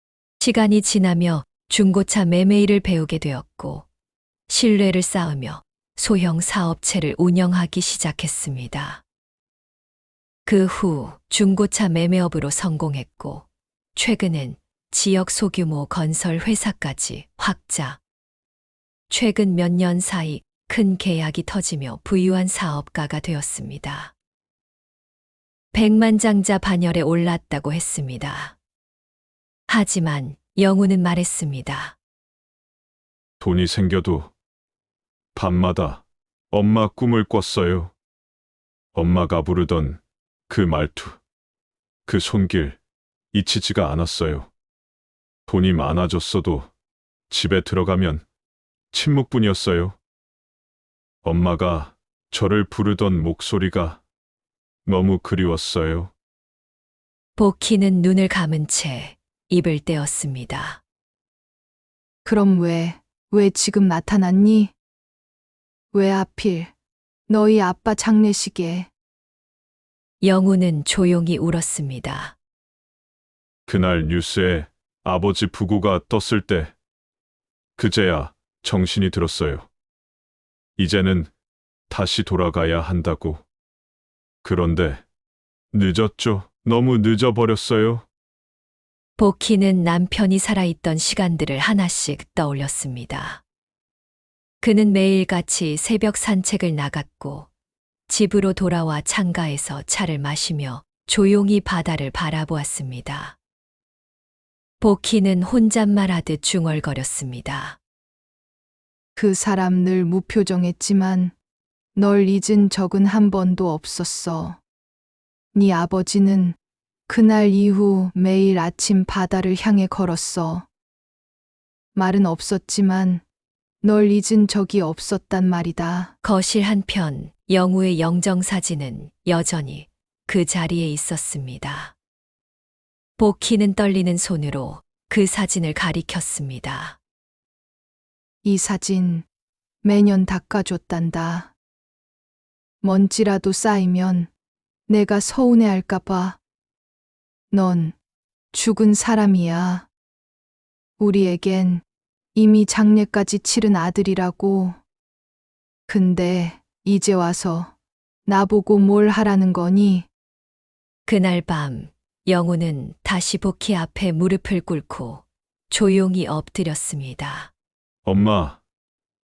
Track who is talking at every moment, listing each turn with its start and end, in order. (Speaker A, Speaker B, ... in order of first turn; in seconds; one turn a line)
Speaker A: 0.4-3.9
Speaker A: 4.5-9.0
Speaker A: 10.5-18.0
Speaker A: 19.1-24.1
Speaker A: 25.7-28.6
Speaker A: 29.7-32.0
Speaker B: 33.4-34.3
Speaker B: 35.4-37.9
Speaker B: 38.9-41.2
Speaker B: 42.1-42.8
Speaker B: 43.3-44.5
Speaker B: 45.5-46.7
Speaker B: 47.3-48.2
Speaker B: 48.9-50.0
Speaker B: 51.2-54.0
Speaker B: 54.9-56.1
Speaker A: 57.4-60.8
Speaker C: 62.2-64.7
Speaker C: 65.9-66.7
Speaker C: 67.3-68.9
Speaker A: 70.2-72.4
Speaker B: 73.7-76.7
Speaker B: 77.8-79.7
Speaker B: 80.8-81.3
Speaker B: 81.9-83.4
Speaker B: 84.4-85.0
Speaker B: 85.7-88.1
Speaker A: 89.2-93.4
Speaker A: 94.6-97.5
Speaker A: 98.1-103.4
Speaker A: 104.8-107.8
Speaker C: 109.2-111.3
Speaker C: 112.0-114.6
Speaker C: 115.5-116.6
Speaker C: 117.1-120.7
Speaker C: 122.0-123.2
Speaker C: 123.8-126.1
Speaker A: 126.2-131.9
Speaker A: 133.2-137.0
Speaker C: 138.4-139.3
Speaker C: 139.8-141.5
Speaker C: 142.8-144.3
Speaker C: 144.9-146.4
Speaker C: 147.5-147.9
Speaker C: 148.5-149.9
Speaker C: 151.0-151.8
Speaker C: 152.3-154.8
Speaker C: 155.9-157.7
Speaker C: 158.3-160.1
Speaker A: 161.1-167.5
Speaker B: 168.1-168.6